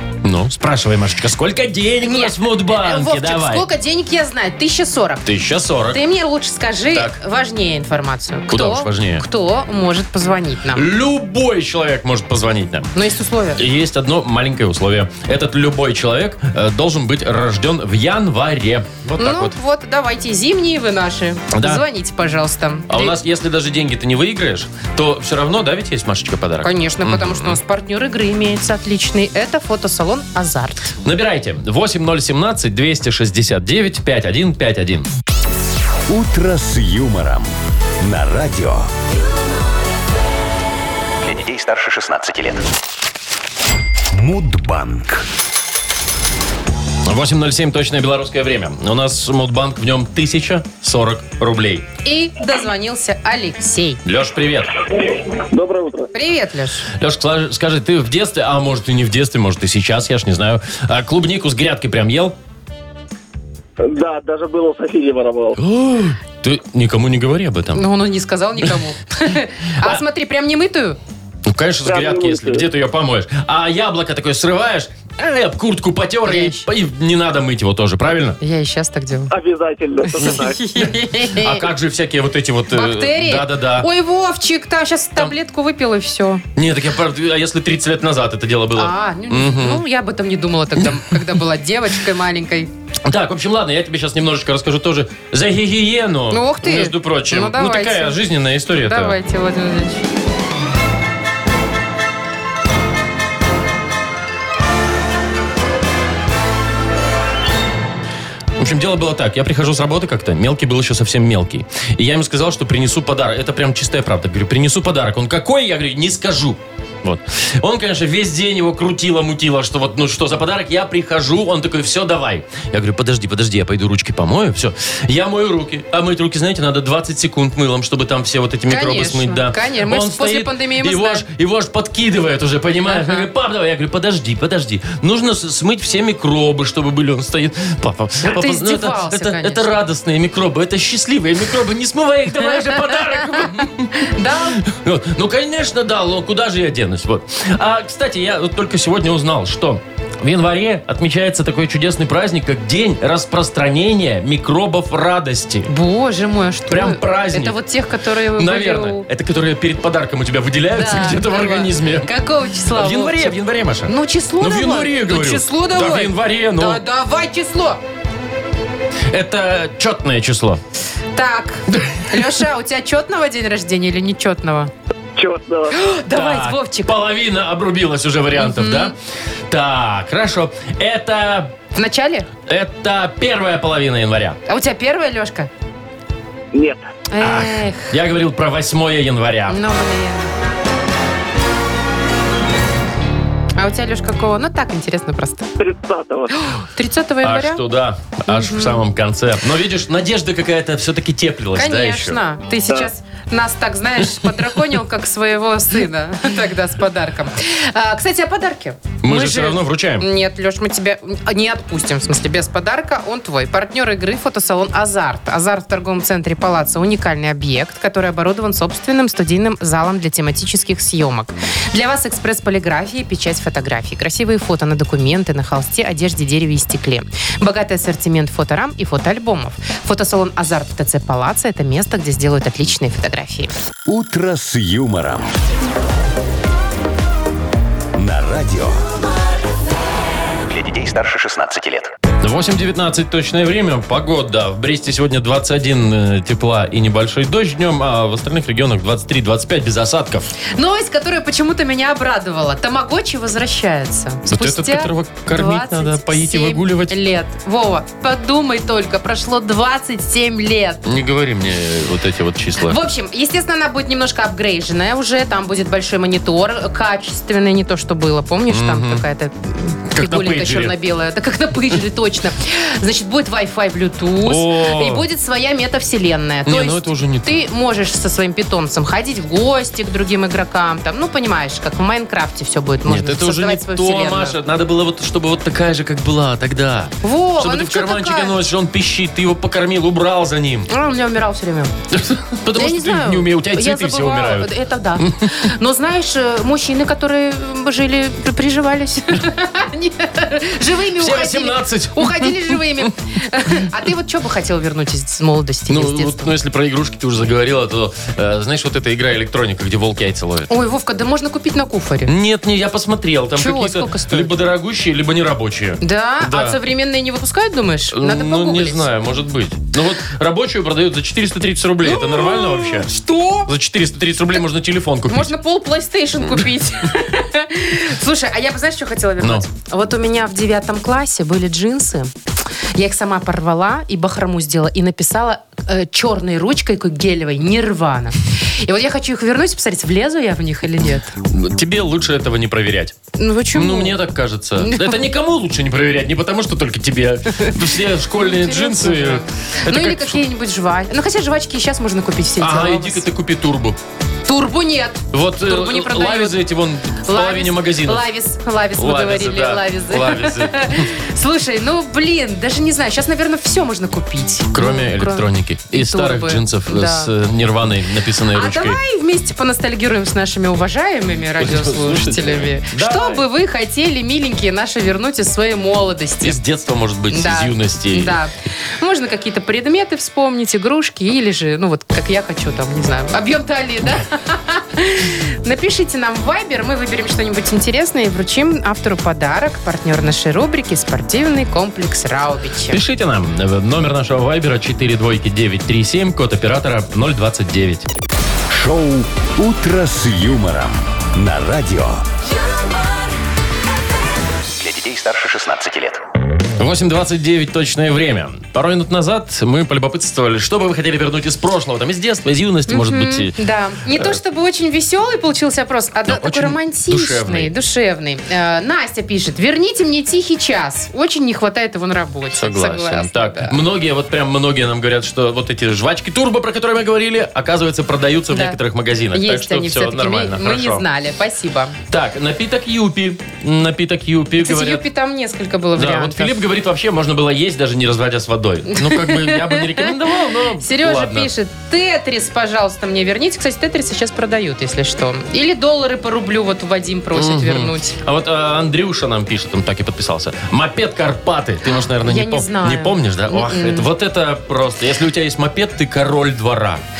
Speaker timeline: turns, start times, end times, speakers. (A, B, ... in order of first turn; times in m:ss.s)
0:00.2-0:03.6 A
0:02.0-0:05.2 B
0:05.2-0:06.0 A
0:05.9-0:10.8 B
0:08.5-0:09.2 A
0:10.7-0:12.9 A
0:12.9-0:13.6 B
0:13.6-0:19.5 A
0:19.2-0:23.2 B
0:21.5-0:21.8 A
0:22.9-0:27.6 A
0:26.6-0:30.9 B
0:31.0-0:35.1 A
0:36.1-0:38.9 C
0:41.2-0:42.6 D
0:44.1-0:45.2 C
0:47.0-0:51.8 A
0:52.0-0:54.0 B
0:54.0-0:54.7 A
0:55.4-0:56.1 E
0:56.1-0:56.9 B
0:57.0-1:02.3 A
1:03.8-1:05.6 E
1:05.6-1:07.8 A
1:07.7-1:11.0 B
1:11.4-1:18.4 A
1:11.8-1:12.6 E
1:16.2-1:16.6 B
1:18.4-1:19.3 B
1:19.3-1:20.6 E
1:20.1-1:21.6 B
1:21.2-1:23.9 A
1:22.7-1:26.4 B
1:26.5-1:29.8 A
1:28.8-1:32.7 B
1:33.0-1:39.2 A
1:36.3-1:38.2 B
1:38.8-1:40.0 B
1:48.6-2:35.7 A
2:08.7-2:11.2 B
2:12.9-2:13.2 B
2:18.2-2:19.7 B
2:22.5-2:24.6 B
2:35.7-2:39.1 B
2:36.7-2:37.6 A
2:38.3-2:42.1 A
2:40.7-2:47.8 B
2:42.7-2:46.8 A
2:49.1-2:50.6 A
2:51.1-2:54.7 B
2:51.7-2:52.2 A
2:55.2-2:55.7 E
2:55.7-2:56.9 B
2:56.1-2:58.9 A
2:58.4-2:58.9 B
2:59.5-3:01.5 A
3:01.7-3:02.3 B
3:02.5-3:04.4 A
3:04.4-3:05.5 B
3:06.5-3:06.8 E
3:07.1-3:07.9 B
3:07.2-3:09.6 A
3:09.5-3:10.3 B
3:13.6-3:15.5 B
3:15.6-3:16.3 E
3:16.4-3:17.6 B
3:17.2-3:22.2 A
3:18.3-3:18.8 B
3:21.6-3:53.5 B
3:29.0-3:30.1 A
3:53.8-3:55.3 C
3:58.0-3:58.8 C
4:00.4-4:01.9 D
4:02.2-4:10.3 A
4:10.6-4:20.8 B
4:14.3-4:17.0 A
4:20.8-4:22.8 A
4:22.6-4:44.4 B
4:28.5-4:29.0 A
4:29.9-4:30.7 A
4:34.2-4:35.0 A
4:36.5-4:37.3 A
4:42.8-4:50.7 A
4:47.0-4:48.4 B
4:50.7-4:51.7 B
4:51.9-4:55.3 A
4:52.5-5:06.3 B
5:01.0-5:02.9 A
5:05.7-5:10.5 A
5:10.5-5:12.1 B
5:12.0-5:16.6 A
5:13.4-5:14.3 B
5:15.8-5:18.9 B
5:17.9-5:22.9 A
5:21.8-5:23.5 B
5:23.5-5:25.3 A
5:25.1-5:32.1 B
5:29.2-5:29.4 A
5:32.8-5:41.1 B
5:41.3-5:43.0 A
5:43.2-5:44.0 B
5:43.5-5:50.2 A
5:44.6-5:45.0 B
5:48.1-5:53.0 B
5:52.4-5:53.8 A
5:54.3-5:56.4 B
5:55.1-5:58.0 A
5:57.0-6:07.1 B
5:58.8-6:00.9 A
6:04.5-6:08.8 A
6:08.3-6:16.4 B
6:11.4-6:13.2 A
6:16.2-6:18.2 A
6:17.1-6:32.8 B
6:32.7-6:37.8 A
6:38.5-6:42.0 C
6:44.6-6:46.0 D
6:46.6-6:54.2 A
6:52.7-7:03.6 B
6:56.1-6:57.5 A
7:02.3-7:10.8 A
7:08.3-7:08.6 B
7:09.1-7:11.8 B
7:11.9-7:14.8 A
7:14.4-7:16.4 B
7:15.8-7:21.3 A
7:18.7-7:19.9 B
7:20.6-7:28.0 B
7:27.1-7:36.8 A
7:32.0-7:33.9 B